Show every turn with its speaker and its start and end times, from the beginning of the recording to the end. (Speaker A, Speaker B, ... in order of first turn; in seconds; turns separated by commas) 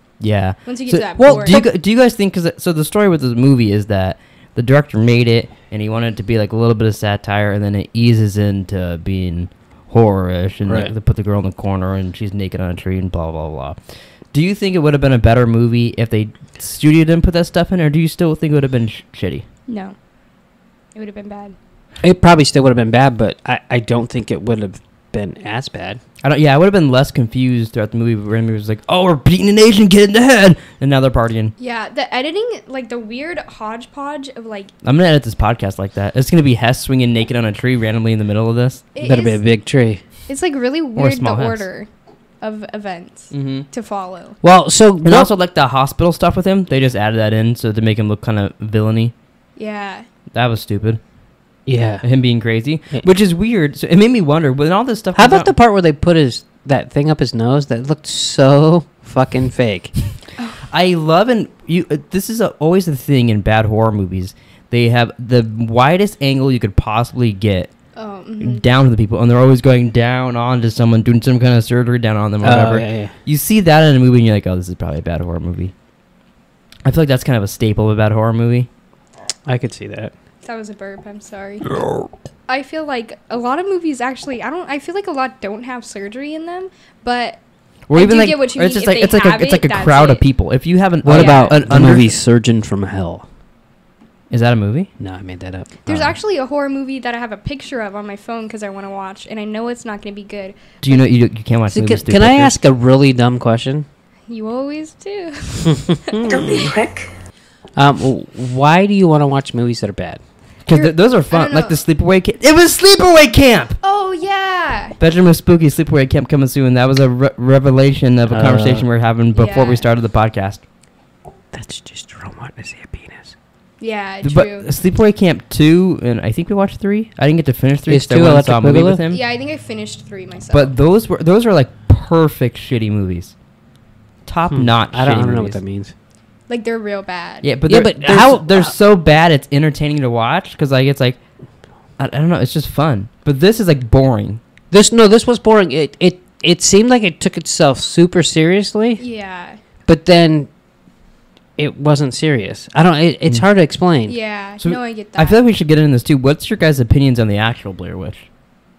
Speaker A: 0.2-19.5, Speaker B: 0.6-1.6, Speaker C: 1.2-1.7, Speaker C: 10.7-10.9, Speaker B: 19.7-20.0, Speaker B: 20.9-21.6, Speaker C: 22.0-26.0, Speaker A: 26.2-31.5, Speaker B: 31.6-34.7, Speaker A: 34.8-38.9, Speaker B: 38.9-39.4, Speaker C: 39.0-40.0, Speaker B: 40.3-41.9, Speaker A: 41.0-41.7, Speaker B: 42.4-44.4, Speaker A: 43.3-43.7, Speaker C: 44.4-45.3, Speaker A: 45.0-49.1, Speaker B: 49.6-50.1, Speaker A: 50.3-51.0, Speaker C: 51.7-52.1, Speaker A: 52.0-55.5, Speaker C: 55.1-60.0, Speaker A: 60.7-67.7, Speaker B: 68.0-68.7, Speaker A: 68.4-75.7, Speaker C: 72.4-73.1, Speaker A: 76.8-78.7, Speaker C: 79.5-80.1, Speaker B: 80.4-81.7, Speaker B: 82.5-90.3, Speaker A: 87.9-92.1, Speaker C: 91.0-93.3, Speaker B: 91.1-91.6, Speaker A: 94.3-94.9, Speaker C: 95.0-96.2, Speaker B: 95.8-100.6, Speaker A: 100.8-102.6, Speaker C: 101.7-103.9, Speaker B: 104.3-105.9, Speaker C: 105.7-106.8, Speaker C: 107.8-110.2, Speaker A: 110.7-113.8, Speaker B: 110.7-111.8, Speaker B: 113.8-115.0, Speaker A: 115.0-120.7, Speaker C: 118.3-118.9, Speaker B: 119.3-119.9, Speaker C: 121.5-123.3, Speaker B: 123.8-124.7, Speaker A: 124.2-129.2, Speaker C: 127.9-129.0, Speaker B: 129.1-130.8, Speaker A: 130.5-133.4, Speaker A: 134.2-135.6, Speaker C: 134.5-135.9, Speaker B: 136.5-137.5, Speaker A: 137.4-141.2, Speaker C: 137.7-138.8, Speaker A: 141.9-144.4, Speaker C: 144.7-149.0, Speaker B: 149.0-149.6, Speaker C: 149.9-150.5, Speaker C: 151.6-154.2, Speaker B: 154.1-155.4, Speaker A: 154.6-158.3